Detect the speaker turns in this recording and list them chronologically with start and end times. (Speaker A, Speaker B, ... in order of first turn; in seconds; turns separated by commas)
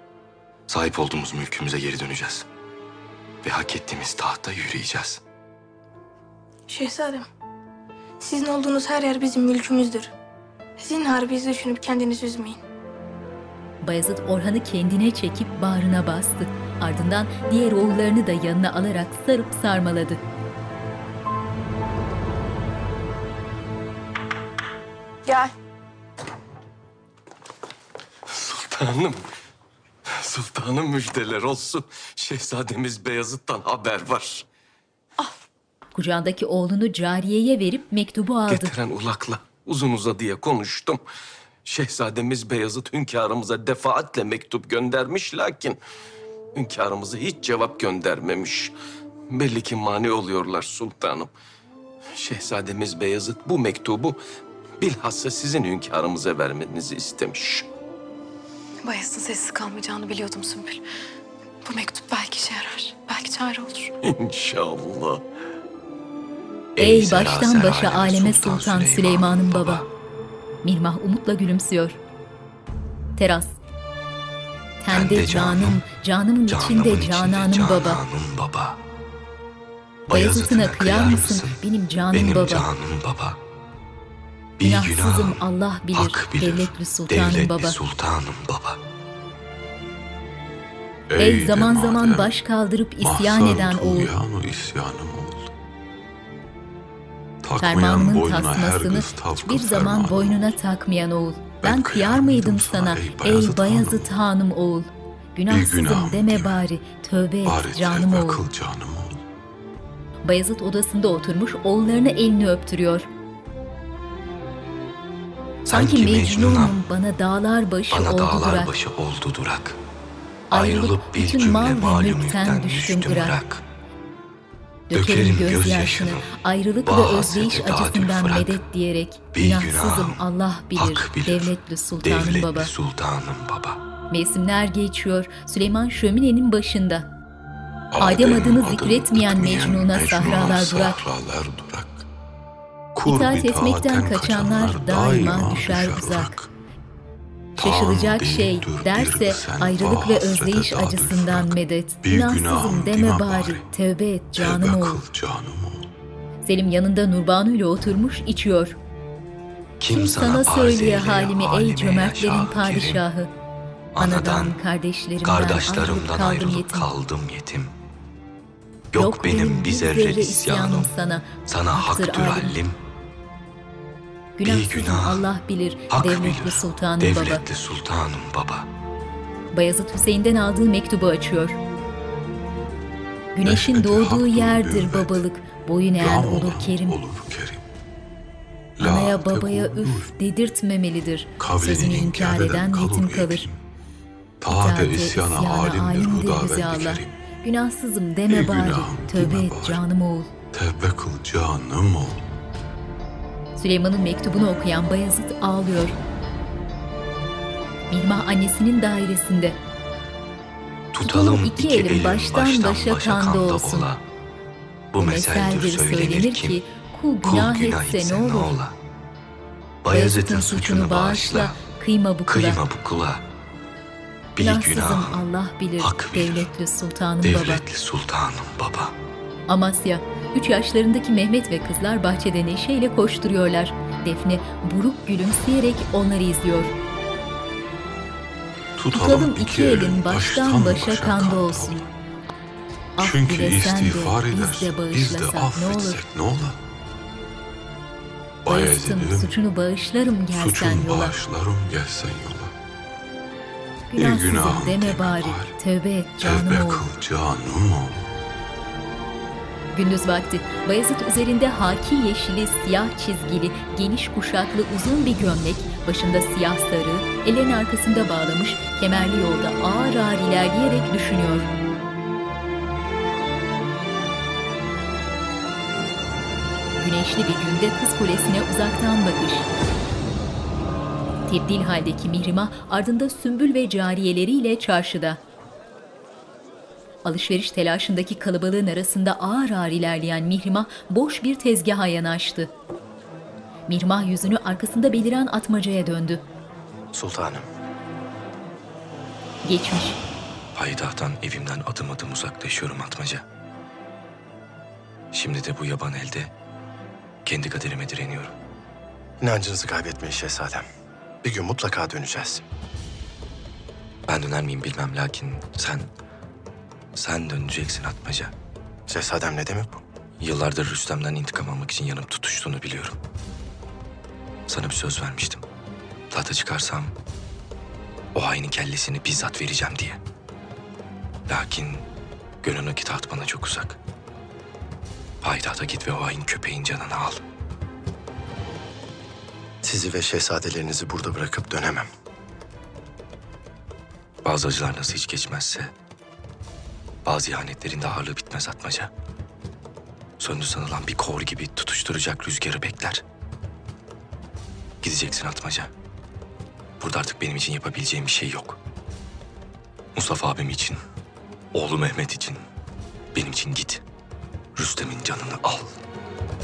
Speaker A: 0.7-2.5, Speaker A: 3.4-5.2, Speaker B: 6.7-7.3, Speaker B: 8.2-10.1, Speaker B: 10.8-12.6, Speaker C: 13.8-20.2, Speaker B: 25.3-25.5, Speaker D: 28.3-29.2, Speaker D: 30.2-34.5, Speaker C: 36.0-38.7, Speaker D: 38.5-41.0, Speaker D: 41.6-45.8, Speaker D: 46.5-48.7, Speaker D: 49.3-51.3, Speaker D: 52.1-54.2, Speaker D: 54.8-57.7, Speaker E: 58.8-60.8, Speaker E: 61.6-63.9, Speaker D: 64.0-65.2, Speaker A: 66.8-69.8, Speaker C: 66.8-69.8, Speaker C: 70.6-72.0, Speaker C: 73.2-73.6, Speaker C: 74.8-78.0, Speaker A: 74.9-75.8, Speaker A: 76.5-78.8, Speaker A: 80.1-81.6, Speaker C: 80.1-82.7, Speaker A: 82.1-83.4, Speaker A: 84.6-85.4, Speaker C: 84.6-87.8, Speaker A: 85.9-88.8, Speaker F: 91.1-92.4, Speaker C: 91.2-94.1, Speaker F: 93.0-95.5, Speaker F: 97.4-100.5, Speaker C: 97.6-108.4, Speaker F: 101.6-104.1, Speaker F: 105.5-106.7, Speaker F: 107.4-109.2, Speaker C: 110.2-113.1, Speaker A: 115.7-116.8, Speaker C: 115.7-118.7, Speaker A: 117.9-119.8, Speaker C: 120.5-123.4, Speaker A: 120.5-123.6, Speaker C: 124.9-132.7, Speaker A: 124.9-126.3, Speaker A: 126.9-128.6, Speaker A: 129.3-130.2, Speaker A: 130.8-133.8, Speaker C: 134.1-137.1, Speaker F: 137.9-142.1, Speaker C: 138.0-141.0, Speaker F: 142.9-146.5, Speaker C: 143.1-146.3, Speaker F: 147.6-153.7, Speaker C: 147.6-155.1, Speaker F: 154.3-155.9, Speaker C: 156.4-158.8, Speaker A: 159.8-163.0, Speaker C: 159.9-163.3, Speaker A: 163.9-164.6, Speaker C: 164.0-166.9, Speaker A: 165.2-167.7, Speaker A: 168.9-172.8, Speaker C: 168.9-172.6, Speaker C: 174.4-177.4, Speaker A: 174.4-175.2, Speaker A: 175.9-178.7, Speaker C: 179.5-181.6, Speaker C: 183.3-187.0, Speaker F: 183.4-185.2, Speaker F: 186.0-187.7, Speaker F: 188.8-190.2, Speaker C: 188.8-193.5, Speaker F: 191.4-193.6, Speaker F: 194.4-197.2, Speaker C: 194.5-200.3, Speaker F: 198.3-199.8, Speaker F: 200.5-202.2, Speaker C: 203.6-206.0, Speaker C: 207.9-209.6, Speaker A: 210.9-214.0, Speaker C: 211.0-213.9, Speaker A: 214.9-216.6, Speaker C: 215.0-218.5, Speaker A: 217.2-218.7, Speaker A: 219.8-221.6, Speaker C: 219.9-222.6, Speaker A: 222.3-223.2, Speaker A: 224.4-225.2, Speaker C: 224.4-227.6, Speaker A: 225.8-226.5, Speaker A: 227.2-228.9, Speaker C: 229.5-236.7, Speaker F: 238.8-241.9, Speaker C: 238.9-241.8, Speaker C: 243.0-246.0, Speaker F: 243.0-246.6, Speaker F: 248.4-249.4, Speaker C: 248.5-251.2, Speaker F: 250.3-252.5, Speaker C: 253.9-256.9, Speaker F: 254.0-255.6, Speaker F: 256.2-258.1, Speaker C: 259.7-271.5, Speaker C: 276.8-279.5, Speaker C: 281.3-285.2, Speaker C: 287.0-292.5, Speaker C: 293.7-296.2, Speaker G: 296.9-297.4, Speaker C: 299.4-300.0, Speaker A: 300.5-303.2, Speaker A: 305.1-306.3, Speaker A: 307.2-308.4, Speaker G: 309.2-310.7, Speaker G: 311.2-312.4, Speaker A: 314.1-315.9, Speaker A: 317.0-318.3, Speaker G: 318.9-319.8, Speaker A: 320.2-323.0, Speaker A: 324.5-325.4, Speaker A: 326.1-326.9, Speaker A: 328.1-330.0, Speaker A: 331.3-331.9, Speaker A: 332.4-333.8, Speaker A: 335.2-337.2, Speaker G: 339.6-341.9, Speaker A: 344.2-345.7, Speaker A: 347.1-348.9, Speaker A: 350.2-353.0, Speaker A: 354.8-355.7, Speaker A: 356.8-358.6, Speaker A: 359.9-360.8, Speaker A: 361.5-362.4, Speaker A: 363.1-363.8, Speaker A: 364.6-365.8